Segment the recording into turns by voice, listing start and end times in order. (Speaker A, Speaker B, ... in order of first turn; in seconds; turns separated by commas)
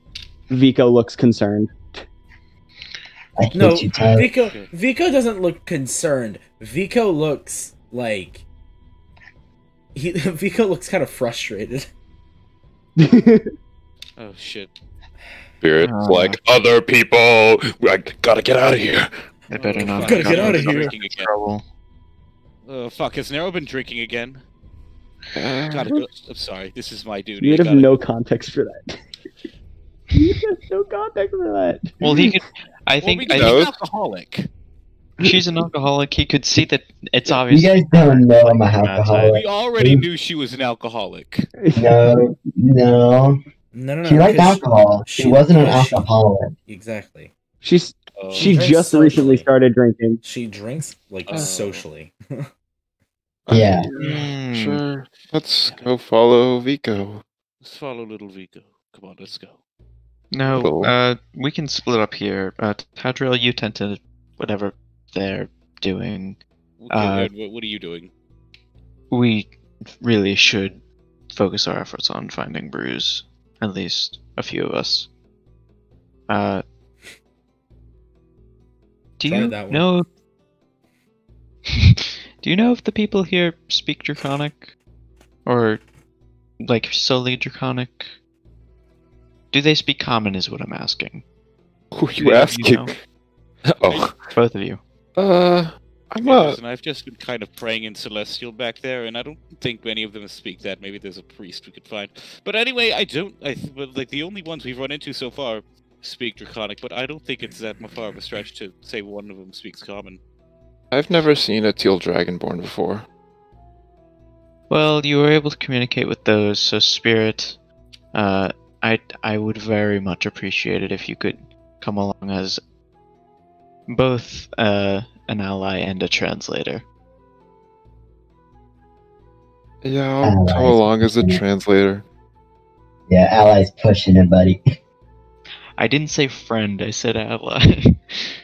Speaker A: 0.5-2.0, Speaker B: 3.4-4.3, Speaker C: 3.5-8.4, Speaker C: 9.9-11.9, Speaker A: 13.0-13.5, Speaker D: 14.2-14.7, Speaker E: 15.6-19.1, Speaker F: 19.5-21.6, Speaker D: 19.5-21.3, Speaker C: 19.8-20.9, Speaker D: 22.7-24.4, Speaker E: 25.4-26.0, Speaker D: 25.7-27.9, Speaker A: 27.4-29.0, Speaker A: 30.1-32.3, Speaker F: 32.0-33.6, Speaker D: 33.0-34.5, Speaker E: 33.3-33.8, Speaker F: 35.2-39.4, Speaker A: 35.2-35.5, Speaker B: 37.5-40.0, Speaker D: 39.2-41.5, Speaker A: 41.6-42.2, Speaker B: 41.8-43.4, Speaker C: 43.7-46.1, Speaker B: 44.0-46.5, Speaker C: 46.7-47.3, Speaker A: 47.6-50.2, Speaker D: 48.2-48.6, Speaker C: 48.4-49.5, Speaker C: 50.2-52.5, Speaker D: 51.3-51.8, Speaker B: 53.5-53.9, Speaker F: 53.5-54.8, Speaker E: 53.9-57.2, Speaker D: 55.6-55.9, Speaker D: 57.6-59.6, Speaker F: 60.3-66.4, Speaker E: 60.5-61.0, Speaker D: 66.8-68.1, Speaker F: 66.9-67.3, Speaker F: 69.1-75.1, Speaker F: 76.3-76.6, Speaker F: 79.2-80.1, Speaker C: 79.2-79.9, Speaker F: 82.4-84.8, Speaker F: 85.5-85.8, Speaker F: 86.6-88.1, Speaker F: 89.5-91.2, Speaker E: 91.9-93.0, Speaker F: 92.2-92.9, Speaker E: 93.7-94.2, Speaker D: 93.9-94.1, Speaker F: 94.3-94.8, Speaker E: 95.2-96.6, Speaker D: 96.2-110.2, Speaker E: 110.9-113.1, Speaker F: 114.7-117.6, Speaker F: 118.1-122.6, Speaker F: 123.9-126.8, Speaker E: 129.8-132.1, Speaker B: 130.2-131.4, Speaker B: 133.1-134.6, Speaker F: 135.8-138.3